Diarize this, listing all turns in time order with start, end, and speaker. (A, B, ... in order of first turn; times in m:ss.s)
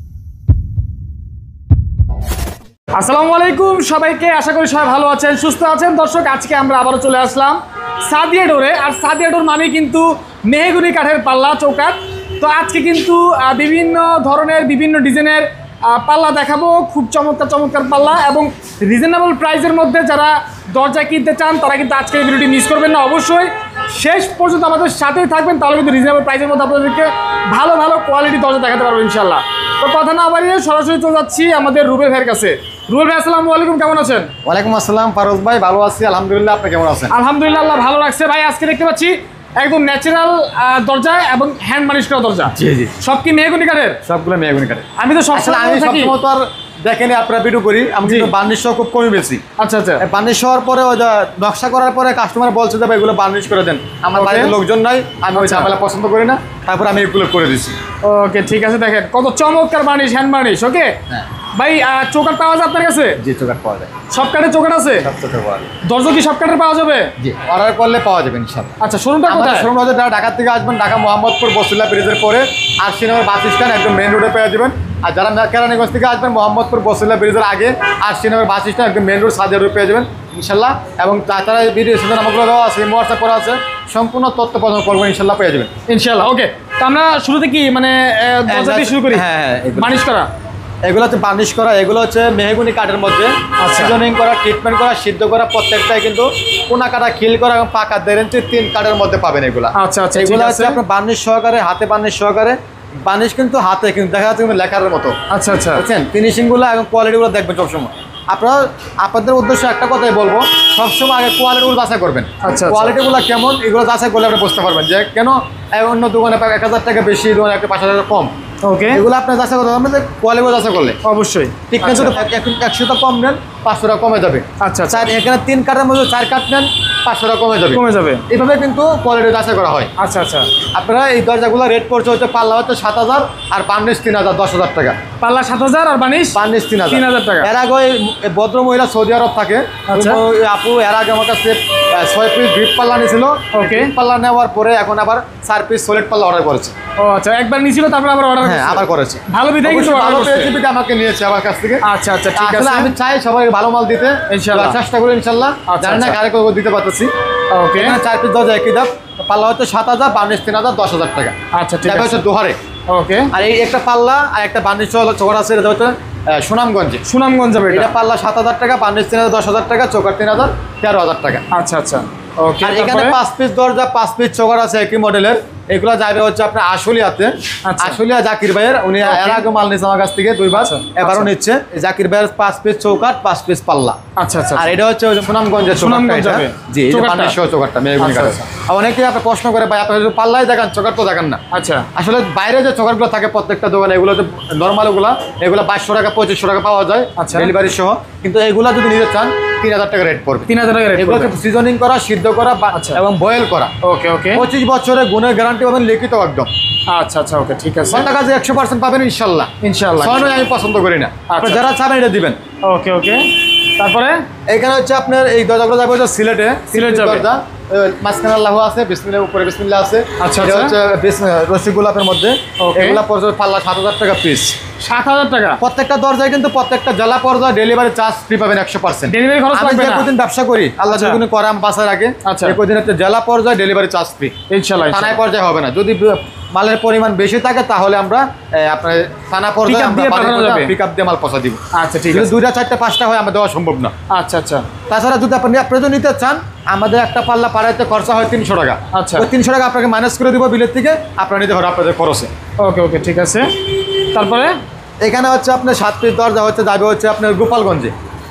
0:02.9-0:34.3 A
0:34.4-0:37.1 B
0:37.1-0:44.0 A
0:42.5-0:43.0 B
0:44.0-0:49.4 B
0:45.0-0:46.1 A
0:48.0-0:48.3 A
0:49.6-0:50.0 A
0:50.0-0:57.8 B
0:54.2-0:54.5 A
0:55.3-0:55.7 A
0:58.0-1:01.0 A
1:01.5-1:03.2 A
1:03.2-1:03.9 B
1:04.1-1:05.1 A
1:05.0-1:05.7 B
1:05.8-1:07.1 A
1:07.2-1:08.7 B
1:08.8-1:09.7 A
1:09.3-1:25.7 B
1:25.9-1:29.2 A
1:28.5-1:30.0 B
1:29.8-1:30.3 A
1:30.8-1:45.2 B
1:33.6-1:34.0 A
1:39.7-1:40.8 A
1:45.3-1:45.8 A
1:45.8-1:58.3 B
1:52.4-1:52.9 A
1:58.6-1:59.0 A
1:58.9-2:01.0 B
2:01.0-2:02.2 A
2:01.7-2:09.9 B
2:04.6-2:05.1 A
2:07.7-2:08.2 A
2:10.0-2:10.5 A
2:10.7-2:15.0 B
2:15.2-2:17.5 A
2:16.3-2:26.7 B
2:19.9-2:20.2 A
2:23.5-2:23.9 A
2:27.0-2:30.5 A
2:28.4-2:31.8 B
2:31.8-2:32.9 A
2:32.4-2:37.1 B
2:34.3-2:34.8 A
2:35.7-2:36.2 A
2:37.5-2:38.0 A
2:37.8-2:42.6 B
2:41.5-2:42.2 A
2:42.9-2:43.3 A
2:43.3-2:47.0 B
2:47.0-2:47.9 A
2:47.7-2:51.4 B
2:51.5-2:53.2 A
2:52.6-3:04.0 B
2:57.6-2:58.0 A
2:59.0-2:59.4 A
3:00.5-3:01.3 A
3:04.2-3:04.7 A
3:04.6-3:11.4 B
3:05.7-3:07.4 A
3:08.0-3:08.5 A
3:11.5-3:11.9 A
3:11.9-3:23.7 B
3:17.2-3:17.5 A
3:20.5-3:21.4 A
3:22.7-3:23.0 A
3:23.8-3:24.4 A
3:24.3-3:26.5 B
3:26.9-3:28.1 A
3:27.9-3:32.4 B
3:29.6-3:30.3 A
3:31.3-3:31.7 A
3:32.6-3:34.2 A
3:34.5-3:44.5 B
3:36.7-3:37.2 A
3:40.2-3:40.7 A
3:42.6-3:43.0 A
3:44.8-3:45.6 A
3:45.6-3:54.3 B
3:49.1-3:50.1 A
3:50.9-3:51.2 A
3:52.2-3:52.6 A
3:54.5-3:55.2 A
3:54.9-4:03.9 B
3:59.6-4:00.7 A
4:01.7-4:02.3 A
4:04.1-4:04.7 A
4:04.9-4:12.3 B
4:08.9-4:09.3 A
4:12.6-4:14.6 A
4:15.0-4:17.9 B